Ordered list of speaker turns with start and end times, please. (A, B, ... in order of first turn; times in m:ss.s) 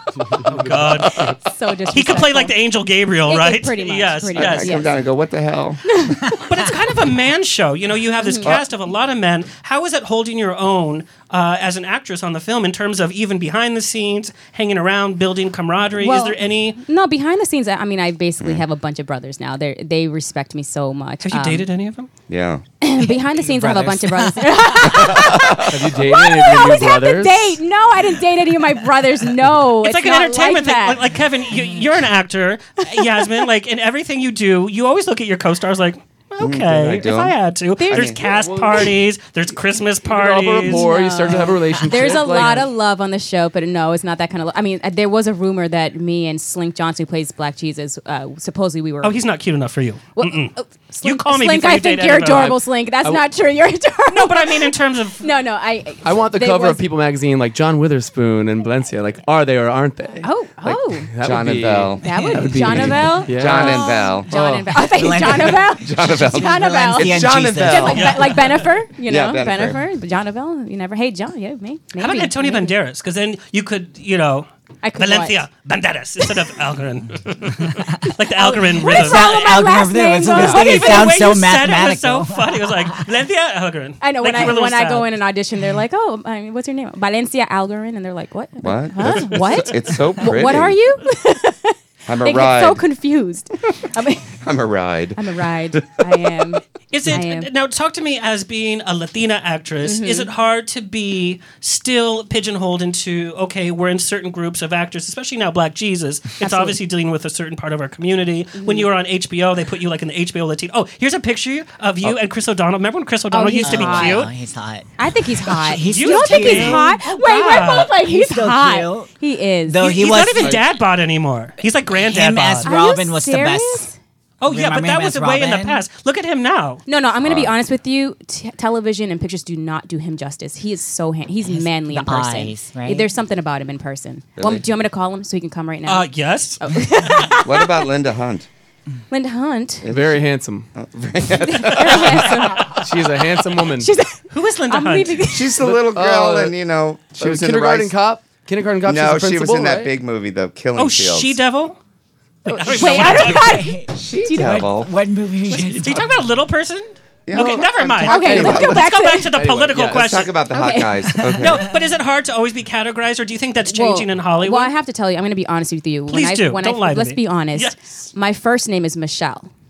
0:00.5-0:01.3 A
0:01.2-0:02.6 B
0:01.9-0:04.8 A
0:03.3-0:04.9 B
0:04.4-0:06.2 C
0:05.9-0:06.4 B
0:06.4-0:16.8 A
0:08.2-0:08.6 B
0:16.0-0:21.7 B
0:21.2-0:22.1 A
0:22.3-0:22.6 C
0:22.8-0:31.1 B
0:23.3-0:25.0 D
0:24.8-0:25.8 C
0:25.7-0:27.6 E
0:29.8-0:40.9 A
0:32.8-0:33.3 B
0:36.4-0:38.2 C
0:37.8-0:38.8 B
0:38.3-0:38.9 E
0:40.0-0:42.7 E
0:40.6-0:49.2 B
0:49.0-0:52.6 A
0:50.2-0:56.8 B
0:54.1-0:55.2 A
0:56.0-1:00.3 E
1:00.2-1:01.1 B
1:00.7-1:04.3 C
1:01.1-1:04.8 E
1:02.0-1:12.7 B
1:02.1-1:02.4 D
1:04.8-1:08.4 D
1:05.4-1:08.2 C
1:07.9-1:08.5 A
1:09.0-1:09.8 C
1:12.0-1:19.6 A
1:14.8-1:15.4 B
1:18.1-1:21.1 B
1:18.8-1:23.0 D
1:20.3-1:25.1 A
1:24.0-1:34.4 B
1:28.6-1:30.8 C
1:32.1-1:32.8 C
1:34.4-1:36.1 C
1:35.2-1:37.5 B
1:36.9-1:54.3 A
1:39.8-1:40.3 B
1:46.4-1:46.8 B
1:48.6-1:48.9 B
1:53.3-1:54.3 B
1:53.6-1:59.1 D
1:55.0-2:00.0 B
1:55.9-1:57.9 A
1:59.7-2:00.6 D
1:59.8-2:02.7 A
2:01.9-2:03.9 D
2:02.6-2:04.0 B
2:04.4-2:06.8 A
2:04.5-2:05.8 D
2:06.9-2:16.1 B
2:07.2-2:07.5 C
2:11.4-2:13.1 D
2:14.4-2:14.7 C
2:15.9-2:16.6 A
2:16.6-2:17.8 B
2:17.4-2:18.5 C
2:19.1-2:19.9 B
2:19.8-2:20.2 C
2:19.9-2:20.7 E
2:20.7-2:22.4 C
2:21.4-2:22.9 B
2:22.8-2:23.9 E
2:23.8-2:25.6 B
2:24.3-2:25.2 A
2:25.3-2:28.0 C
2:25.6-2:26.6 E
2:27.2-2:29.9 E
2:28.8-2:31.4 C
2:30.8-2:31.8 A
2:32.5-2:34.7 B
2:32.5-2:33.6 A
2:32.8-2:36.2 D
2:34.0-2:34.9 C
2:35.5-2:40.3 A
2:37.3-2:38.8 C
2:37.4-2:39.3 B
2:38.2-2:38.8 E
2:39.3-2:40.1 E
2:39.8-2:41.6 C
2:40.5-2:41.4 B
2:41.4-2:44.7 A
2:43.7-2:49.5 B
2:46.1-2:47.8 A